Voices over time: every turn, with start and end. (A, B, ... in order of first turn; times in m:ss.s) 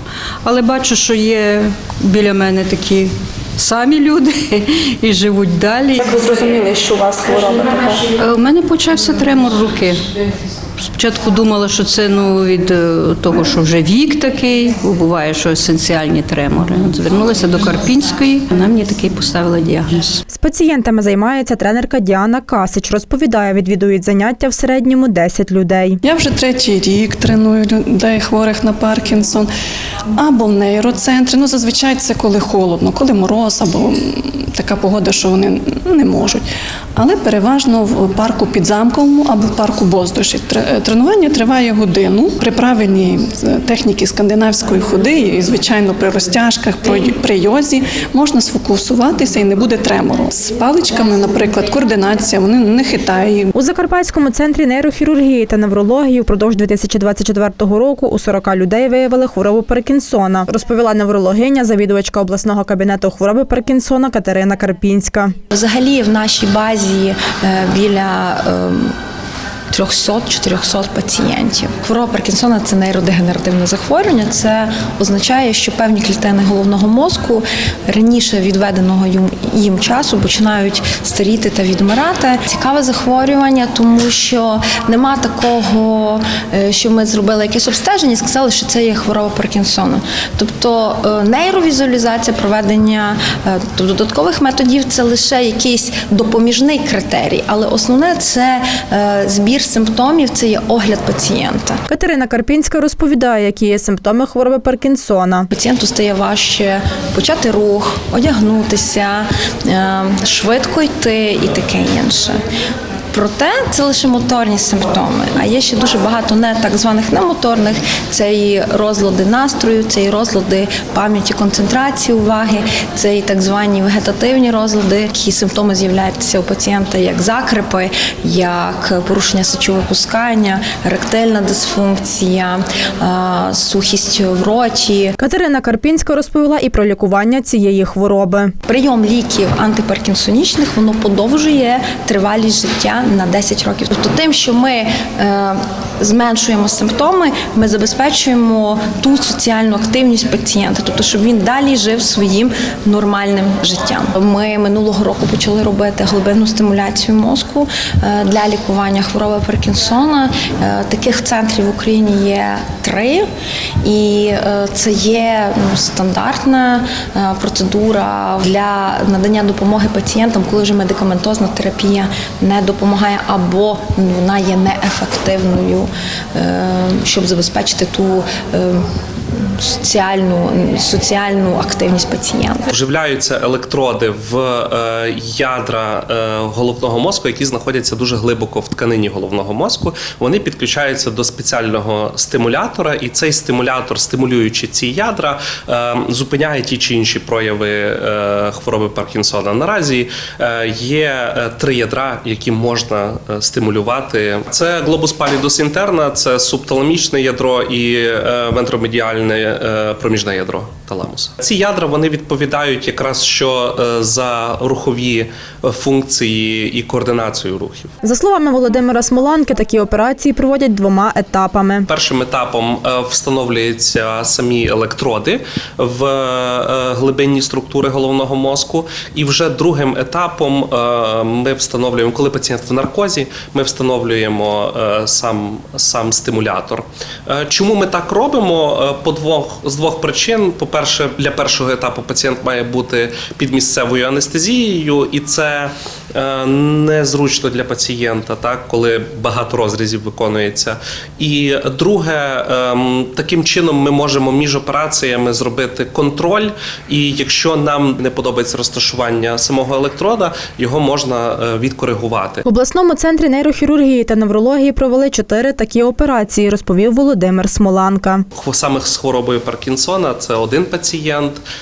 0:00.4-0:06.4 A
0:06.1-0:07.9 B
0:07.5-0:10.1 A
0:10.8-0:20.2 A
0:20.3-0:26.0 C
0:26.0-0:29.5 B
0:30.2-0:53.5 B
0:53.5-1:05.4 C
1:05.5-1:08.9 D
1:09.7-1:41.8 D
1:41.9-1:45.5 C
1:45.5-1:52.4 D
1:53.1-2:15.2 D
2:15.2-2:18.5 C
2:18.7-2:43.2 D
2:43.8-3:02.7 D
3:02.7-3:37.9 E
3:38.0-3:41.9 C
3:41.9-4:22.4 E
4:22.5-4:28.2 C
4:28.3-4:31.4 E